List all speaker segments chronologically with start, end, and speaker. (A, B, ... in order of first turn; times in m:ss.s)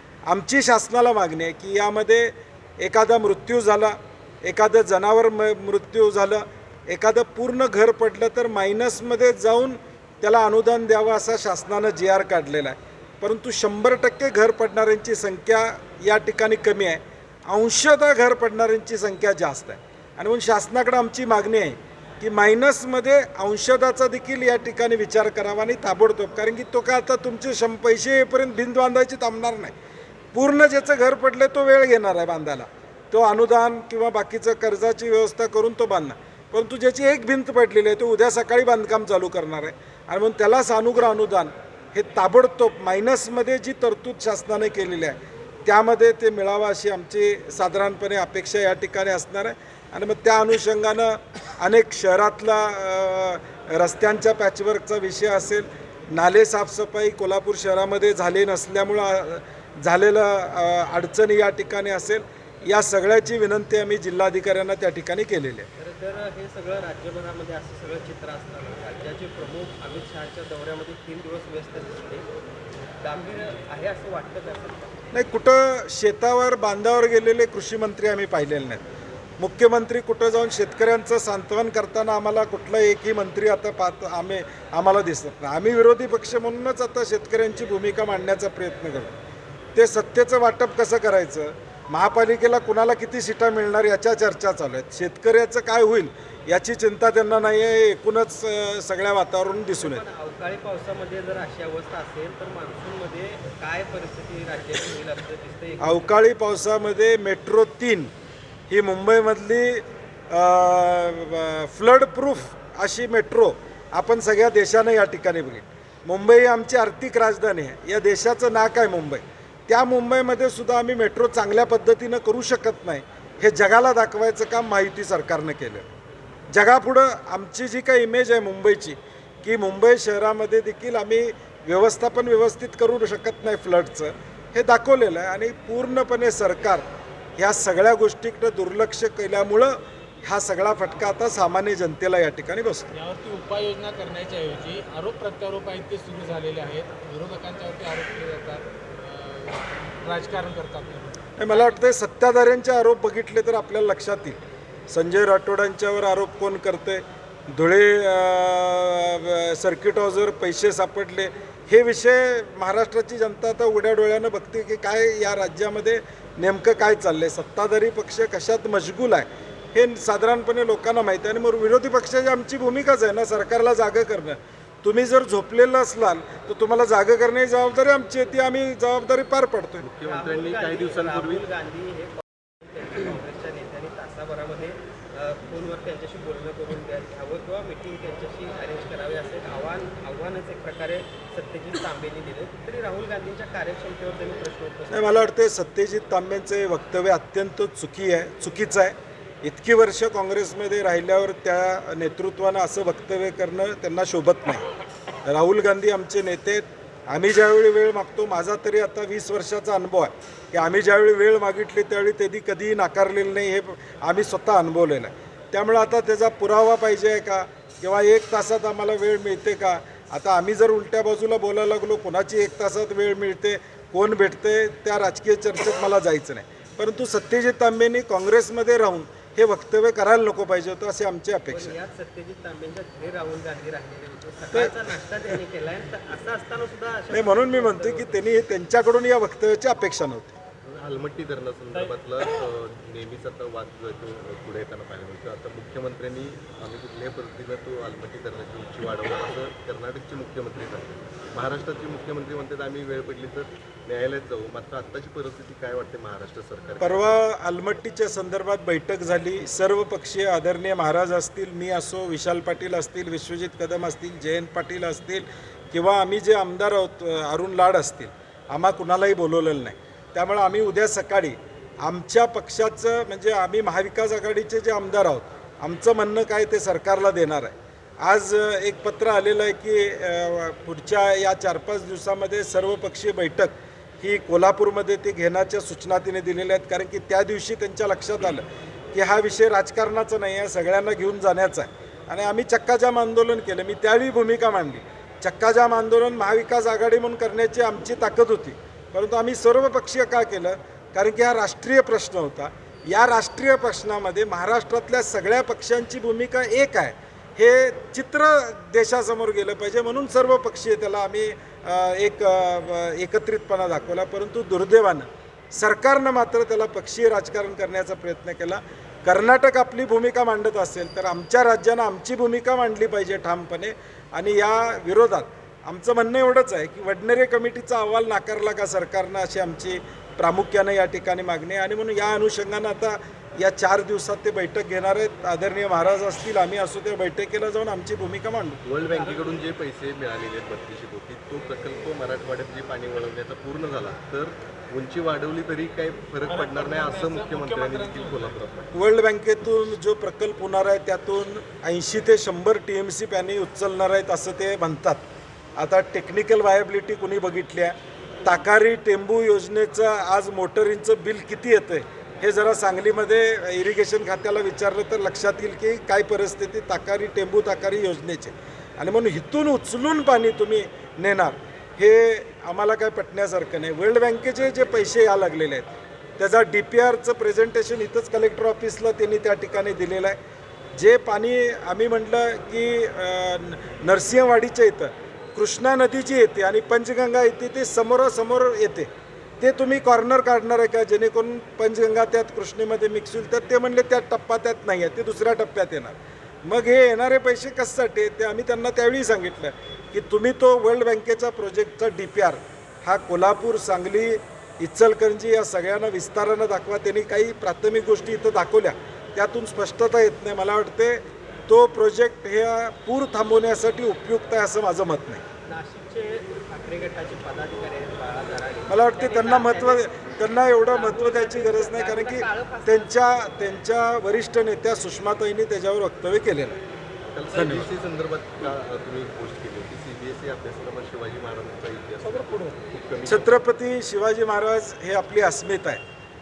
0:00.3-0:29.7 A
0:30.3-1:05.7 A
1:05.8-1:12.3 B
1:13.0-1:14.9 B
1:15.1-1:18.8 A
1:19.4-1:29.2 A
1:29.8-1:40.0 A
1:39.7-1:46.0 B
1:45.8-1:48.1 A
1:48.7-2:05.9 A
2:06.5-2:16.9 A
2:17.4-2:22.9 A
2:22.9-2:31.8 C
2:31.4-2:59.9 A
2:59.8-3:01.5 D
3:00.0-3:15.3 B
3:14.9-3:24.6 A
3:25.3-3:51.8 A
3:51.5-3:58.2 B
3:57.1-4:00.4 A
4:00.6-4:17.1 D
4:16.8-5:38.6 A
5:38.6-5:48.7 D
5:46.2-5:48.3 C
5:48.7-5:55.0 A
5:55.6-6:20.2 A
6:20.8-6:28.9 A
6:29.4-6:55.2 A
6:55.5-6:59.9 B
6:58.7-7:06.6 A
7:00.6-7:03.2 B
7:07.1-7:13.4 D
7:07.3-7:07.7 A
7:12.0-7:15.8 A